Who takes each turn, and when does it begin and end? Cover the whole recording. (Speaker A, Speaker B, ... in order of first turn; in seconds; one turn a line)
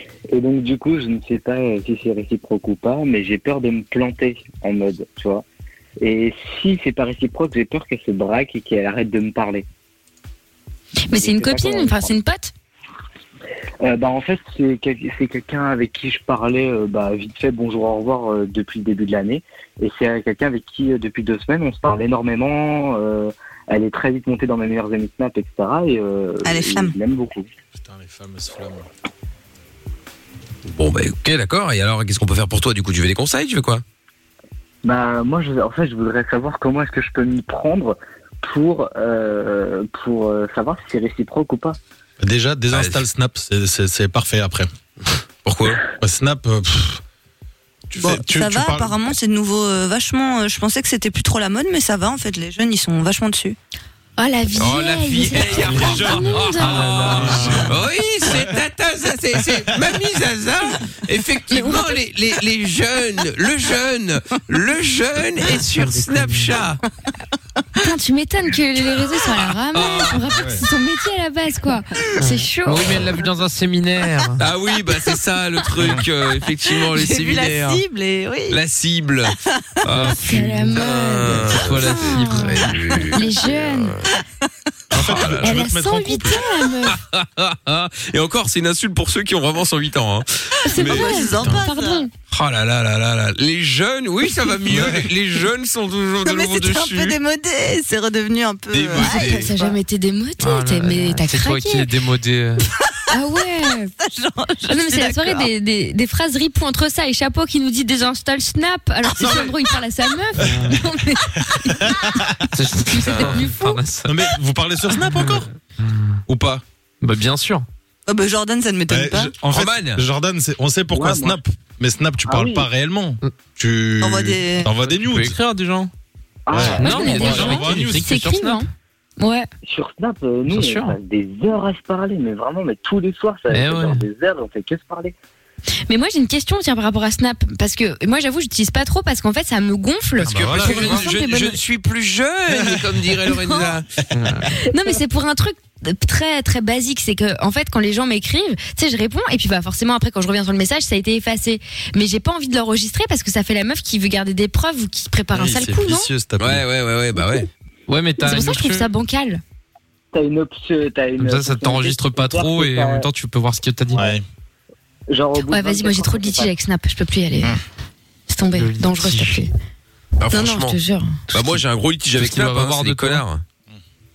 Speaker A: 0.3-5.4
Speaker A: 6.0-9.7
Speaker B: 11.1-12.5
Speaker A: 11.1-12.2
Speaker A: 13.8-27.5
Speaker C: 26.4-26.9
Speaker D: 27.7-28.9
Speaker E: 30.7-33.8
Speaker A: 34.8-41.8
Speaker D: 42.2-44.7
Speaker E: 42.7-43.0
Speaker E: 45.5-45.8
Speaker D: 46.0-47.0
Speaker D: 47.9-49.1
Speaker C: 48.0-53.6
Speaker B: 54.2-57.5
Speaker E: 54.5-66.8
Speaker F: 55.7-57.7
Speaker D: 57.3-57.7
Speaker B: 61.5-62.0
Speaker F: 65.8-66.5
Speaker B: 67.8-73.0
Speaker E: 69.7-70.3
Speaker D: 70.4-70.6
Speaker F: 72.2-74.4
Speaker E: 74.4-77.6
Speaker C: 76.8-78.6
Speaker E: 78.5-84.1
Speaker F: 79.9-80.6
Speaker B: 80.0-84.0
Speaker F: 81.5-82.7
Speaker D: 84.9-86.5
Speaker E: 84.9-85.6
Speaker B: 85.4-87.0
Speaker E: 86.8-91.2
Speaker B: 90.7-92.1
Speaker C: 90.7-92.1
Speaker E: 92.3-97.2
Speaker D: 94.7-95.1
Speaker C: 96.2-99.8
Speaker E: 98.7-99.5
Speaker B: 99.0-101.9
Speaker F: 100.4-102.7
Speaker B: 103.1-103.9
Speaker C: 104.0-105.5
Speaker B: 104.7-112.2
Speaker D: 109.2-109.5
Speaker F: 110.4-110.8
Speaker D: 111.9-112.3
Speaker F: 112.5-114.2
Speaker B: 112.9-113.9
Speaker E: 113.1-113.4
Speaker D: 114.0-115.5
Speaker F: 115.1-116.2
Speaker D: 116.3-116.6
Speaker F: 117.0-117.7
Speaker C: 118.1-119.3
Speaker D: 118.9-125.4
Speaker E: 119.4-120.0
Speaker A: 120.9-121.4
Speaker A: 122.3-122.7
Speaker C: 124.0-124.7
Speaker F: 124.8-125.9
Speaker A: 126.5-127.2
Speaker D: 126.5-128.1
Speaker F: 126.7-128.6
Speaker B: 126.8-129.5
Speaker A: 129.7-135.1
Speaker F: 130.5-131.0
Speaker F: 133.5-134.1
Speaker B: 135.9-141.6
Speaker E: 140.2-143.9
Speaker D: 140.2-141.1
Speaker D: 142.5-142.8
Speaker F: 144.2-144.5
Speaker B: 144.5-156.1
Speaker D: 155.3-156.6
Speaker E: 156.4-157.5
Speaker F: 157.9-158.9
Speaker B: 158.2-159.4
Speaker A: 160.1-163.1
Speaker F: 161.2-164.0
Speaker D: 164.0-164.2
Speaker A: 165.1-166.5
Speaker B: 165.4-167.6
Speaker B: 168.3-169.5
Speaker F: 168.6-169.4
Speaker E: 170.2-170.8
Speaker B: 170.3-171.6
Speaker E: 171.3-173.4
Speaker F: 172.2-173.2